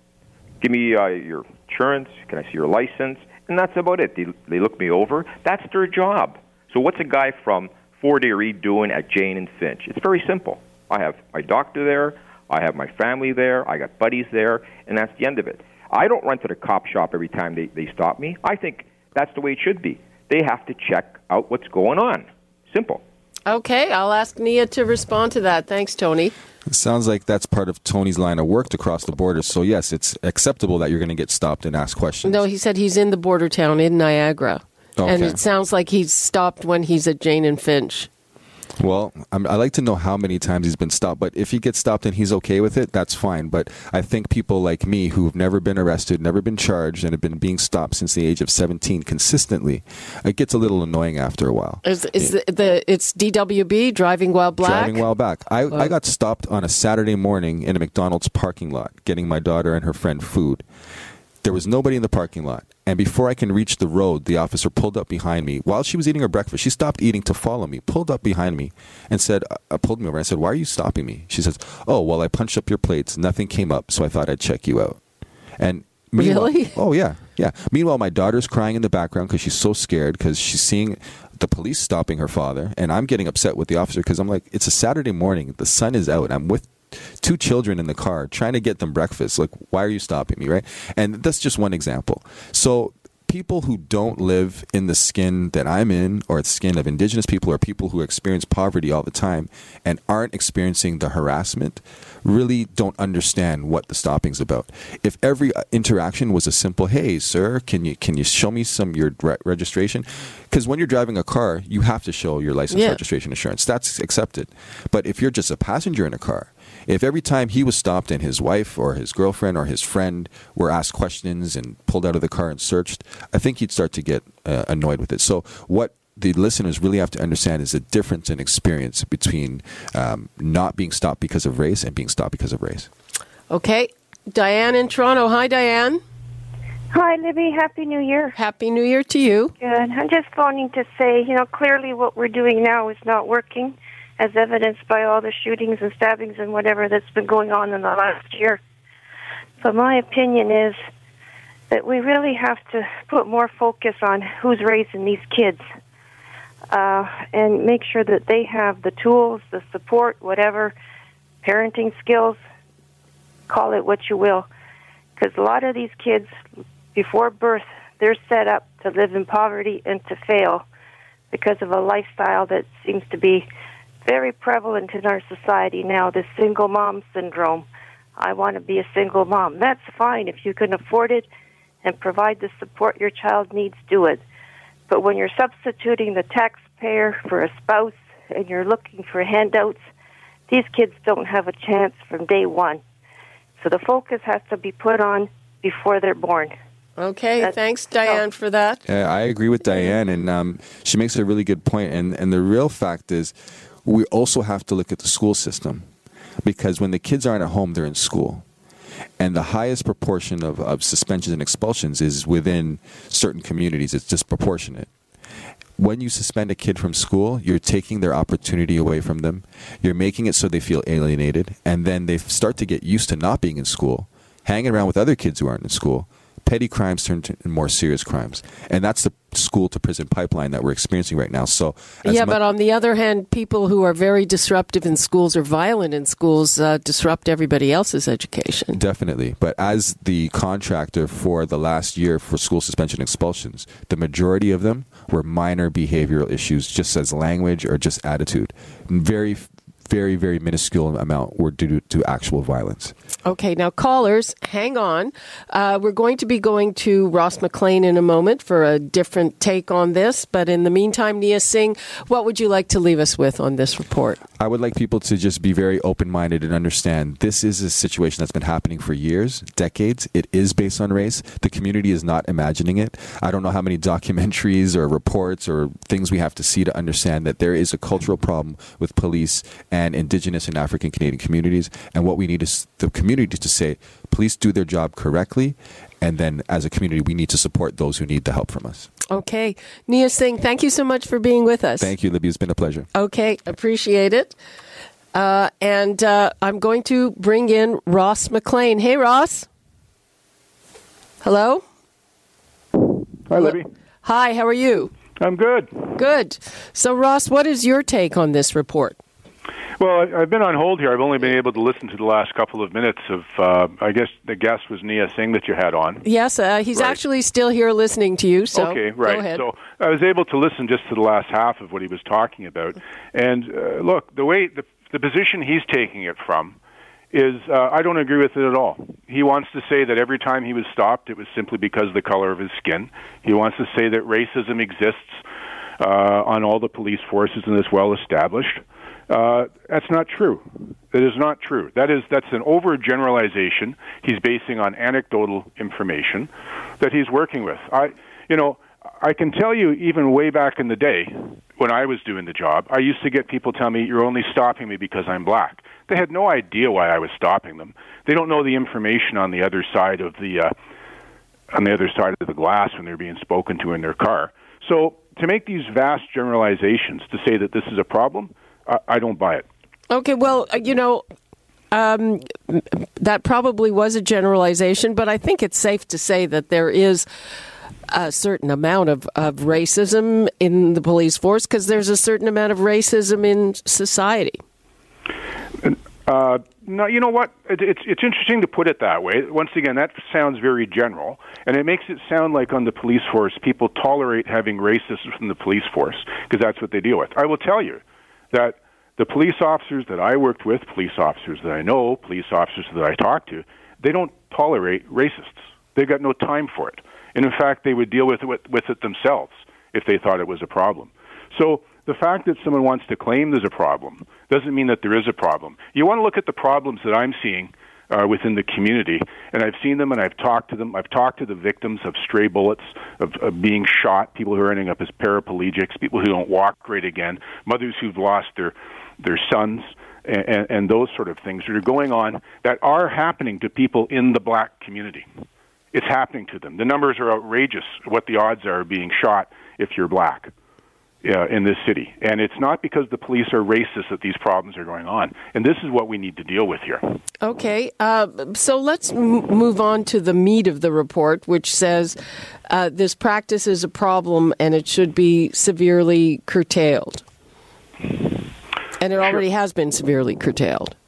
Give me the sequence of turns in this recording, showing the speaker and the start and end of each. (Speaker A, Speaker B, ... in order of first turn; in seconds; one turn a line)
Speaker A: 0.6-23.0
Speaker B: 23.5-26.3
Speaker C: 26.7-32.4
Speaker B: 32.2-38.1
Speaker C: 35.0-35.4
Speaker C: 38.8-52.4
Speaker B: 51.8-55.0
Speaker C: 54.6-60.6
Speaker C: 61.4-75.0
Speaker C: 75.6-132.9
Speaker B: 76.2-76.8
Speaker B: 112.7-113.0
Speaker B: 133.5-136.0
Speaker D: 136.9-138.3
Speaker B: 138.3-139.5
Speaker D: 139.6-148.6
Speaker D: 149.6-150.8
Speaker D: 151.7-155.7
Speaker D: 156.7-160.7
Speaker D: 161.4-162.4
Speaker D: 163.5-164.5
Speaker D: 165.2-166.3
Speaker D: 166.9-170.7
Speaker D: 171.3-173.5
Speaker D: 174.0-177.7
Speaker D: 178.2-181.3
Speaker D: 181.8-184.2
Speaker D: 184.9-189.8
Speaker D: 190.5-192.8
Speaker D: 193.6-196.6
Speaker B: 197.0-198.8
Speaker C: 198.9-205.9
Speaker C: 206.4-208.4
Speaker C: 209.2-214.9
Speaker C: 215.8-232.4
Speaker B: 232.0-238.8
Speaker C: 238.7-252.9
Speaker B: 253.2-264.2
Speaker C: 264.4-288.9
Speaker B: 289.1-291.9
Speaker C: 291.8-292.9
Speaker B: 292.9-294.4
Speaker B: 295.1-299.5
Speaker B: 301.2-301.6
Speaker B: 303.3-304.9
Speaker E: 303.3-303.7
Speaker E: 305.2-305.9
Speaker B: 305.9-309.0
Speaker E: 309.8-316.0
Speaker B: 316.0-319.4
Speaker E: 316.8-317.0
Speaker E: 318.5-326.6
Speaker E: 327.1-335.2
Speaker E: 335.8-360.5
Speaker E: 361.5-369.5
Speaker B: 369.9-371.1
Speaker B: 371.7-377.1
Speaker B: 377.9-384.4
Speaker E: 385.6-435.1
Speaker E: 435.7-440.3
Speaker E: 441.0-446.9
Speaker B: 447.2-452.0
Speaker B: 452.5-457.0
Speaker B: 458.8-460.8